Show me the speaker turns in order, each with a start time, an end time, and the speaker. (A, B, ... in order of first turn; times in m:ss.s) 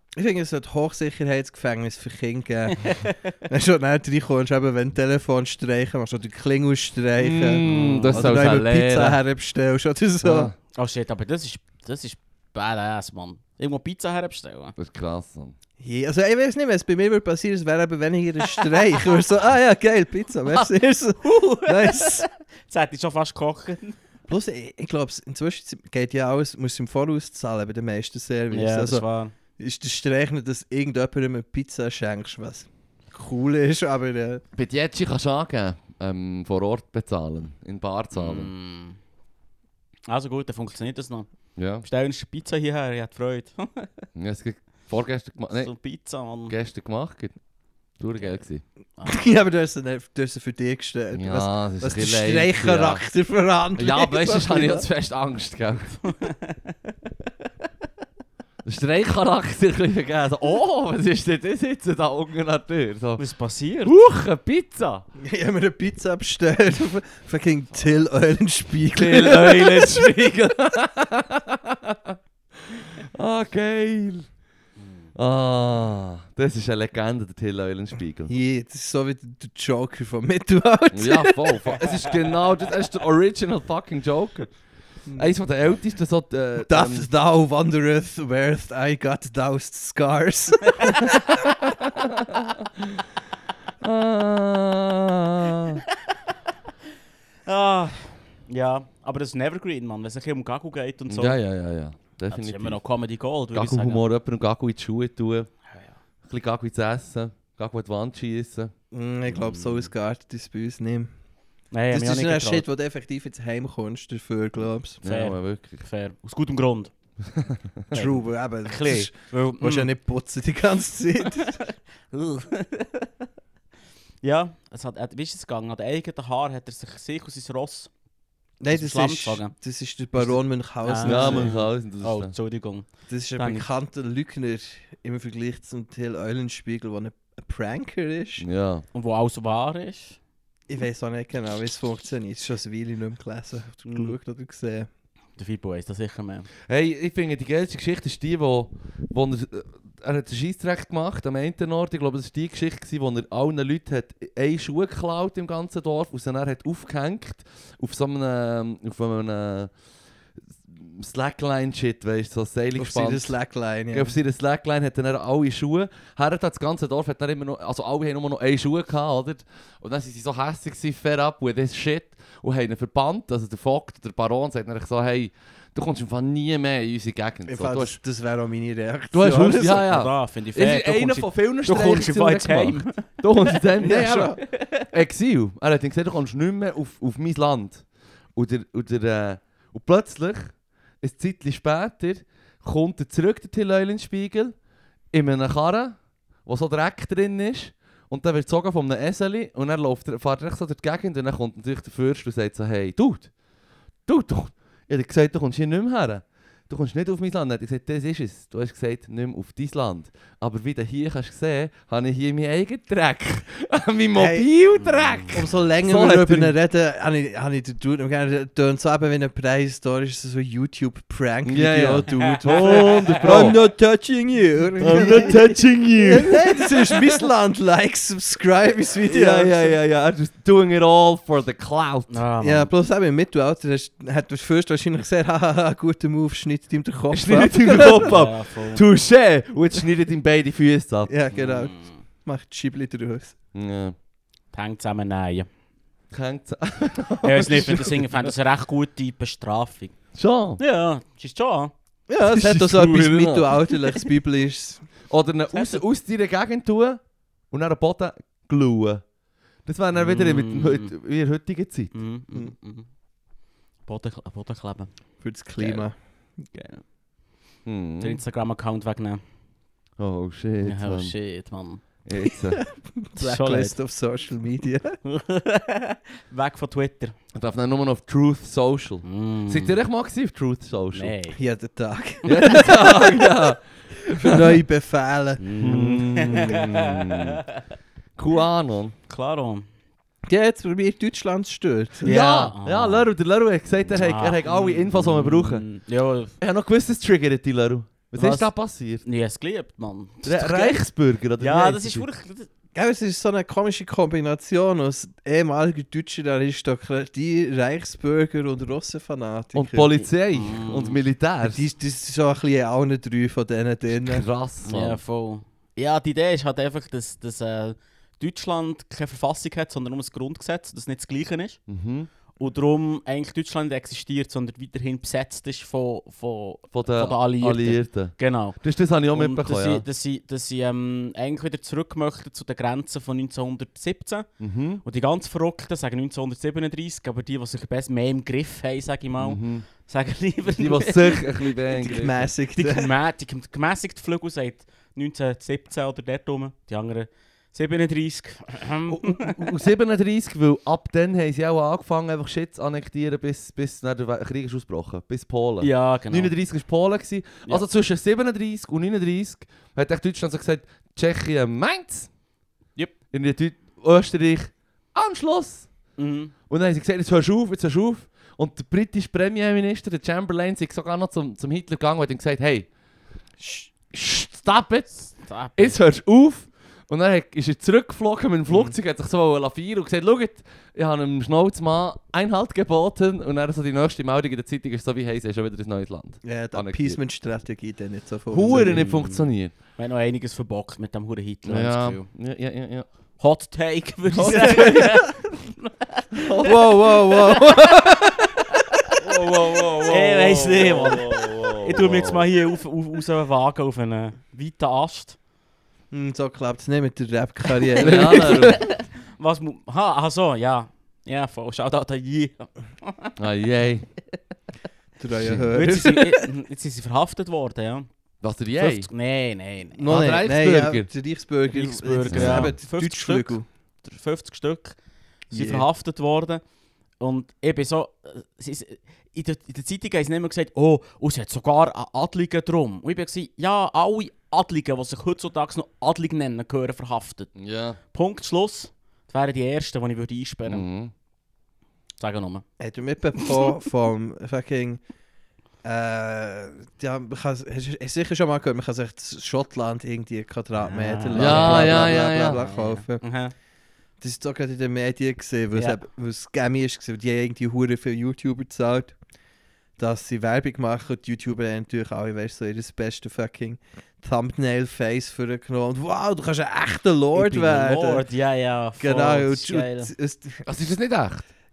0:00.2-0:10.5 A
0:02.8-0:03.2 B
0:07.2-0:09.2 C
0:07.6-0:08.3 B
0:10.2-0:10.5 C
0:10.7-0:14.7 B
0:14.8-0:15.5 C
0:15.8-0:22.2 A
0:21.2-0:24.0 B
0:24.3-0:29.0 A
0:28.5-0:29.3 B
0:29.6-0:34.4 A
0:34.5-0:38.5 C
0:38.1-0:39.0 B
0:40.1-0:44.0 B
0:41.6-0:41.8 C
0:44.1-0:45.7 C
0:45.5-0:46.5 B
0:46.5-0:47.4 C
0:48.0-0:48.6 C
0:49.0-0:49.2 B
0:49.0-0:54.9 A
0:51.1-0:53.0 C
0:53.8-0:56.0 C
0:56.0-0:56.6 B
0:58.6-1:03.2 C
1:03.2-1:04.0 B
1:03.8-1:05.0 C
1:05.2-1:10.1 A
1:08.9-1:12.2 C
1:12.7-1:14.3 C
1:15.1-1:18.3 C
1:18.3-1:21.7 A
1:20.9-1:24.5 C
1:25.0-1:25.3 A
1:25.1-1:27.1 C
1:26.6-1:31.2 A
1:31.6-1:33.0 C
1:33.8-1:35.8 C
1:37.4-1:41.4 B
1:41.1-1:42.8 C
1:42.3-1:44.0 B
1:43.5-1:45.5 C
1:46.2-1:48.7 C
1:48.9-1:51.1 A
1:49.3-1:49.9 B
1:51.7-1:52.6 B
1:51.9-1:55.0 A
1:55.0-1:55.8 C
1:55.0-1:56.9 B
1:57.2-1:57.9 C
1:57.9-1:59.9 B
1:57.9-2:01.6 A
2:01.4-2:03.1 B
2:04.2-2:07.9 B
2:08.6-2:11.5 A
2:08.7-2:09.5 B
2:10.2-2:13.7 B
2:11.0-2:12.3 C
2:13.1-2:18.4 A
2:18.4-2:18.8 C
2:18.9-2:20.2 B
2:20.7-2:24.9 A
2:23.9-2:24.1 B
2:25.4-2:26.5 B
2:26.7-2:39.7 C
2:40.7-2:43.3 C
2:42.8-2:44.1 A
2:43.9-2:58.0 C
2:57.5-2:59.8 A
2:59.1-3:14.6 C
2:59.5-3:03.6 B
3:03.8-3:04.4 A
3:15.1-3:23.3 C
3:24.0-3:36.5 C
3:34.2-3:34.5 A
3:34.8-3:35.4 B
3:35.3-3:49.7 A
3:41.4-3:43.6 C
3:42.1-3:43.5 B
3:44.8-3:47.0 C
3:44.9-3:45.3 B
3:49.1-3:52.2 C
3:52.1-3:52.7 B
3:52.4-3:58.1 A
3:57.1-4:01.1 C
3:57.8-3:58.8 B
4:01.1-4:03.3 A
4:01.3-4:01.9 B
4:03.5-4:03.9 C
4:04.5-4:05.5 B
4:06.1-4:08.3 C
4:07.2-4:10.0 B
4:10.1-4:10.6 C
4:10.6-4:11.7 B
4:12.1-4:14.9 A
4:12.2-4:13.9 C
4:15.1-4:19.0 C
4:15.5-4:15.8 B
4:19.6-4:21.9 C
4:20.0-4:20.9 B
4:21.9-4:22.9 B
4:23.8-4:24.9 B
4:25.2-4:25.9 A
4:26.4-4:26.8 B
4:27.6-4:28.2 C
4:28.0-4:29.2 B
4:30.0-4:31.1 C
4:30.6-4:31.8 B
4:32.0-4:32.6 C
4:32.8-4:35.0 A
4:33.2-4:33.8 B
4:35.0-4:37.1 B
4:37.3-4:41.1 C
4:39.0-4:39.8 B
4:40.9-4:41.4 B
4:41.3-4:43.4 A
4:42.2-4:44.5 C
4:44.1-4:45.4 A
4:45.4-4:47.3 B
4:45.6-4:47.4 C
4:48.2-4:48.9 C
4:49.1-4:49.6 B
4:50.3-4:52.2 A
4:52.0-4:53.1 B
4:52.0-4:55.6 C
4:53.9-4:56.3 B
4:56.4-4:59.0 C
4:58.1-5:00.8 B
5:00.2-5:02.1 C
5:01.4-5:02.5 B
5:02.7-5:09.9 A
5:09.5-5:11.6 C
5:10.3-5:11.0 B
5:11.4-5:14.2 A
5:13.9-5:15.0 C
5:14.6-5:21.6 B
5:21.7-5:22.1 C
5:22.4-5:34.3 B
5:26.7-5:29.8 C
5:34.4-5:34.8 C
5:34.8-5:41.8 B
5:39.2-5:39.7 C
5:40.5-5:42.3 C
5:41.8-5:42.9 A
5:42.6-5:49.4 B
5:48.8-6:02.1 C
5:55.6-5:56.3 B
6:03.1-6:05.7 C
6:06.0-6:06.3 B
6:06.5-6:12.7 C
6:13.4-6:13.7 A
6:13.9-6:27.0 C
6:15.2-6:15.8 B
6:18.5-6:18.7 A
6:26.2-6:28.8 A
6:28.3-6:29.5 C
6:28.5-6:32.1 B
6:31.4-6:32.9 C
6:33.2-6:37.7 B
6:34.1-6:34.9 C
6:34.2-6:35.1 A
6:36.2-6:36.6 C
6:36.4-6:38.5 A
6:39.0-6:42.3 C
6:39.8-6:45.2 B
6:45.9-6:48.7 A
6:47.8-6:48.6 C
6:48.2-6:48.6 B
6:49.2-6:53.1 B
6:53.2-6:53.9 C
6:55.0-6:56.3 A
6:55.2-6:55.4 C
6:55.5-6:57.9 B
6:58.2-6:58.9 C
6:58.6-6:59.9 B
6:59.7-7:03.4 A
6:59.8-7:00.9 C
7:01.5-7:04.8 B
7:02.1-7:02.5 C
7:05.3-7:06.4 B
7:05.3-7:05.6 A
7:07.0-7:17.3 B
7:17.4-7:17.8 C
7:17.9-7:20.6 B
7:20.5-7:20.9 C
7:22.0-7:22.4 B
7:22.6-7:24.8 A
7:25.6-7:33.0 A
7:30.6-7:33.3 B
7:31.1-7:32.4 C
7:34.0-7:39.0 A
7:39.8-7:48.0 A
7:47.1-7:49.9 B
7:48.8-7:50.4 A
7:50.4-7:51.3 C